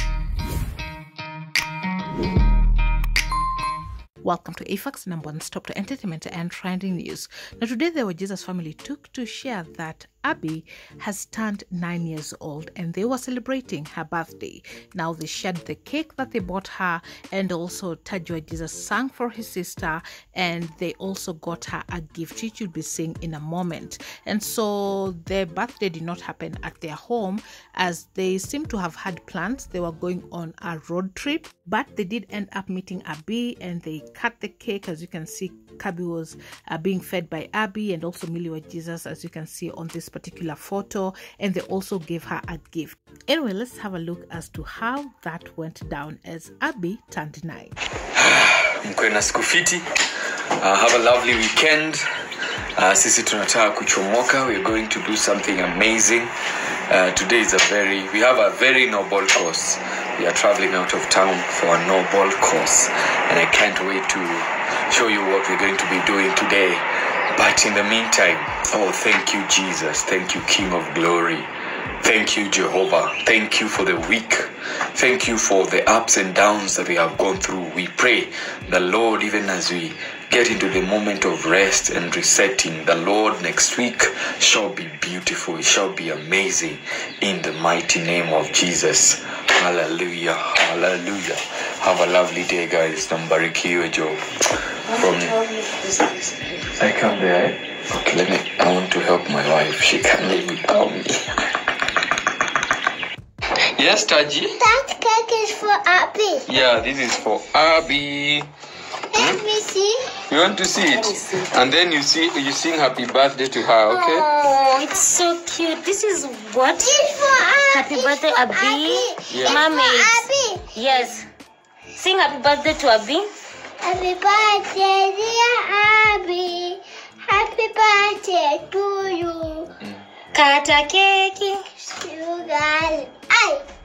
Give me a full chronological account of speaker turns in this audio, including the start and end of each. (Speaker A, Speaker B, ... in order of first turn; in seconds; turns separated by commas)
Speaker A: 4.2-47.8, Speaker B: 48.1-49.9, Speaker B: 50.6-52.0, Speaker B: 52.8-56.3, Speaker B: 56.9-94.2, Speaker C: 94.9-96.8, Speaker B: 94.9-95.3, Speaker B: 96.7-101.3, Speaker B: 103.7-104.6, Speaker D: 104.6-106.5, Speaker B: 106.5-108.5, Speaker D: 109.1-110.1, Speaker B: 109.1-109.4, Speaker B: 110.3-114.3, Speaker C: 110.8-111.6, Speaker C: 113.9-117.0, Speaker D: 116.8-120.8, Speaker C: 117.6-121.2, Speaker B: 119.3-119.7, Speaker C: 121.9-123.3, Speaker D: 123.8-129.7, Speaker C: 130.3-131.6, Speaker D: 132.0-133.6